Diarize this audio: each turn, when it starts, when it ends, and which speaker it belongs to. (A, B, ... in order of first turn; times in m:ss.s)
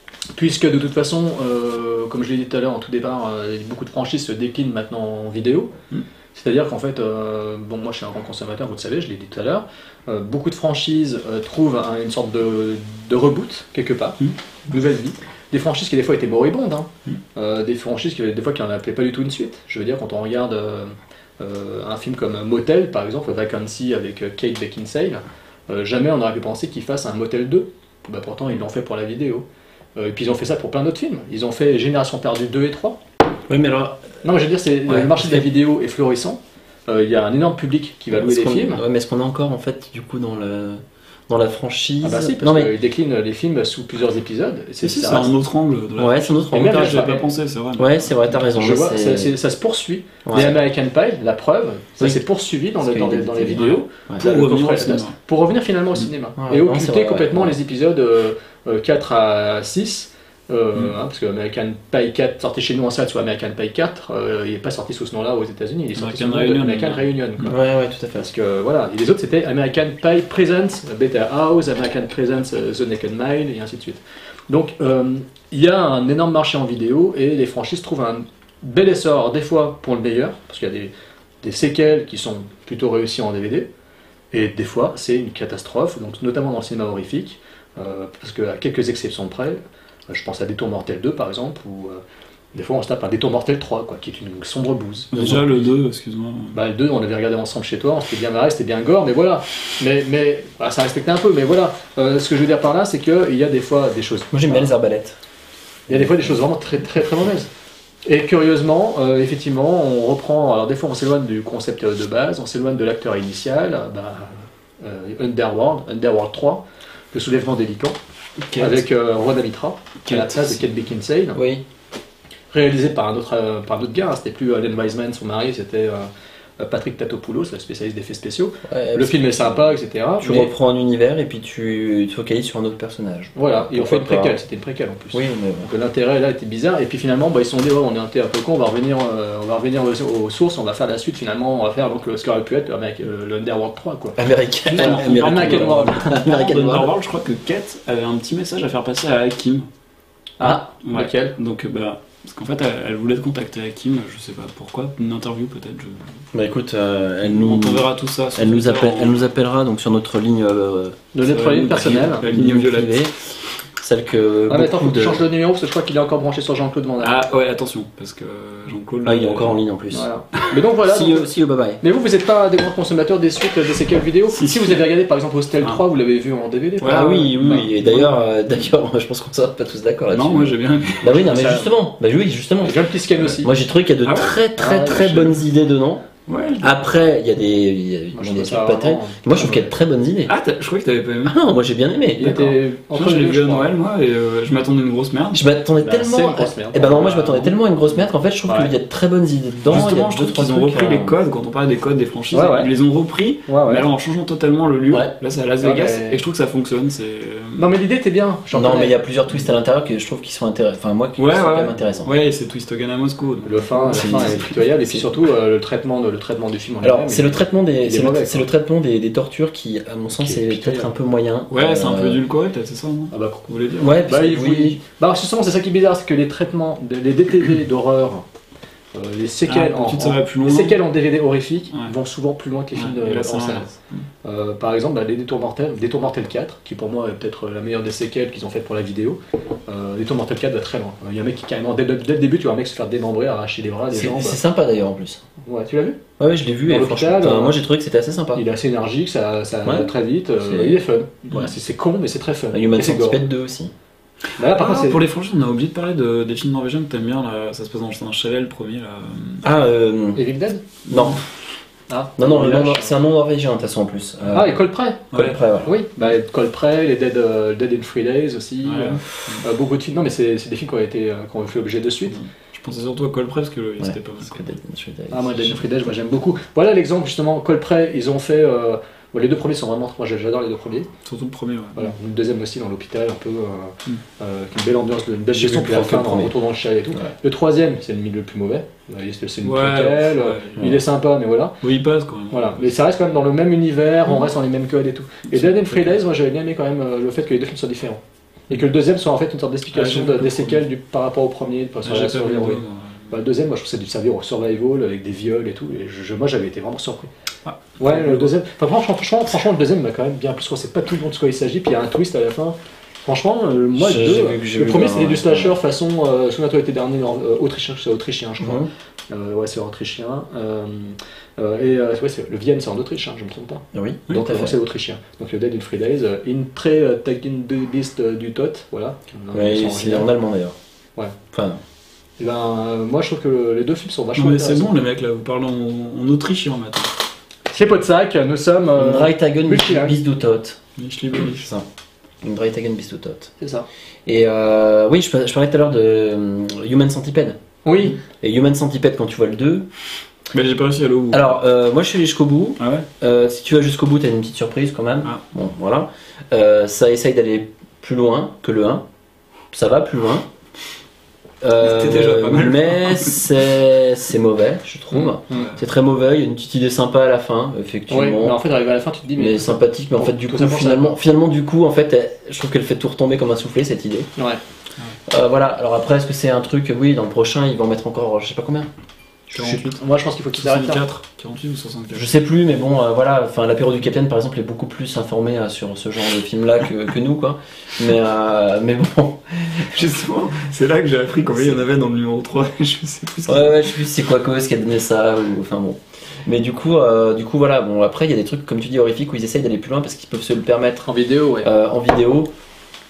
0:00.3-0:05.7 A
0:06.3-0:33.0 A
0:33.5-0:34.0 B
0:34.2-0:38.8 A
0:34.9-0:35.4 B
0:38.1-0:42.7 B
0:42.0-0:45.3 A
0:44.8-0:48.4 C
0:46.0-0:47.1 B
0:46.5-0:47.2 A
0:47.8-0:49.3 B
0:48.6-1:07.5 A
0:50.2-0:50.6 B
0:52.8-0:54.2 B
0:54.2-0:55.1 C
0:56.4-0:57.5 B
1:06.0-1:07.5 C
1:07.4-1:08.3 B
1:08.1-1:20.9 A
1:21.4-1:23.7 A
1:24.3-1:32.0 A
1:32.5-1:35.6 A
1:35.1-1:36.6 C
1:36.5-1:44.6 A
1:44.3-1:45.2 B
1:45.9-1:47.5 A
1:48.0-1:58.0 A
1:58.5-1:58.8 C
1:58.6-2:01.4 A
2:00.1-2:00.6 C
2:01.3-2:01.6 B
2:02.5-2:10.5 A
2:08.6-2:14.4 B
2:13.4-2:26.2 A
2:15.1-2:15.7 B
2:24.2-2:26.9 B
2:24.7-2:29.7 C
2:30.4-2:31.3 A
2:30.8-2:36.1 C
2:36.3-2:41.0 B
2:37.2-2:39.2 C
2:41.1-2:42.2 A
2:41.2-2:43.1 C
2:41.7-2:43.1 B
2:43.8-2:45.2 B
2:44.5-2:47.2 A
2:47.0-2:49.6 C
2:49.0-2:50.1 B
2:49.9-2:57.6 A
2:50.8-2:51.8 B
2:54.3-2:54.8 C
2:56.8-2:58.3 C
2:56.8-3:06.1 B
3:00.1-3:01.6 C
3:01.3-3:01.6 A
3:02.6-3:03.5 A
3:04.0-3:04.4 C
3:04.6-3:05.4 A
3:06.3-3:06.8 C
3:06.6-3:10.3 B
3:08.1-3:09.7 A
3:10.2-3:11.4 C
3:11.2-3:12.6 B
3:12.2-3:13.7 A
3:12.9-3:15.5 C
3:15.3-3:21.2 B
3:15.8-3:17.5 A
3:18.5-3:18.7 A
3:19.7-3:27.7 C
3:22.3-3:22.7 A
3:23.5-3:23.8 A
3:25.6-3:26.2 A
3:27.6-3:29.0 A
3:28.5-3:32.1 B
3:31.2-3:34.5 C
3:33.4-3:38.5 A
3:33.9-3:35.1 B
3:36.8-3:42.2 B
3:40.1-3:40.9 A
3:41.5-3:44.0 C
3:43.1-3:48.2 A
3:43.8-3:44.8 B
3:48.9-3:53.7 A
3:49.5-3:50.8 C
3:52.7-3:54.0 C
3:54.2-4:04.4 A
4:03.9-4:05.2 B
4:05.4-4:06.0 A
4:06.2-4:08.4 B
4:06.7-4:07.6 A
4:08.3-4:13.2 A
4:09.6-4:09.9 B
4:10.4-4:10.8 B
4:12.5-4:13.7 B
4:14.4-4:15.0 A
4:14.5-4:19.4 C
4:19.4-4:20.3 B
4:20.1-4:20.7 A
4:20.9-4:21.2 B
4:20.9-4:21.1 C
4:21.9-4:22.9 A
4:22.2-4:25.7 B
4:24.3-4:25.1 A
4:25.1-4:25.5 C
4:25.6-4:32.2 A
4:28.6-4:29.4 C
4:32.1-4:34.5 C
4:33.8-4:35.6 B
4:35.1-4:40.9 A
4:41.0-4:41.9 C
4:41.8-4:51.6 A
4:45.3-4:46.3 B
4:49.4-4:50.8 C
4:51.6-4:52.8 C
4:52.3-5:07.1 A
4:55.3-4:56.0 C
4:59.7-5:00.6 C
5:01.8-5:03.1 C
5:07.4-5:08.3 C
5:07.8-5:30.1 A
5:13.8-5:15.6 B
5:18.4-5:18.7 B
5:23.7-5:24.6 B
5:29.3-5:30.6 B
5:31.3-5:31.6 B
5:32.2-5:34.7 A
5:34.2-5:36.9 C
5:37.5-5:40.0 A
5:38.7-5:40.6 B
5:40.8-5:41.5 C
5:41.1-5:41.7 B
5:42.2-5:43.3 B
5:43.4-5:43.7 A
5:44.0-5:47.4 B
5:47.6-5:48.0 A
5:48.1-5:49.7 B
5:50.3-5:51.4 C
5:51.1-5:58.8 B
5:52.6-5:52.8 C
5:59.5-6:00.3 B
6:01.4-6:08.4 B
6:01.6-6:03.3 C
6:05.0-6:05.6 C
6:07.9-6:11.0 A
6:09.2-6:14.1 B
6:15.1-6:18.7 B
6:19.3-6:19.8 C
6:19.3-6:19.6 B
6:19.7-6:20.8 A
6:20.4-6:22.1 C
6:21.9-6:29.9 B
6:29.7-6:33.7 C
6:33.3-6:40.9 B
6:40.8-6:41.5 A
6:41.4-6:42.3 B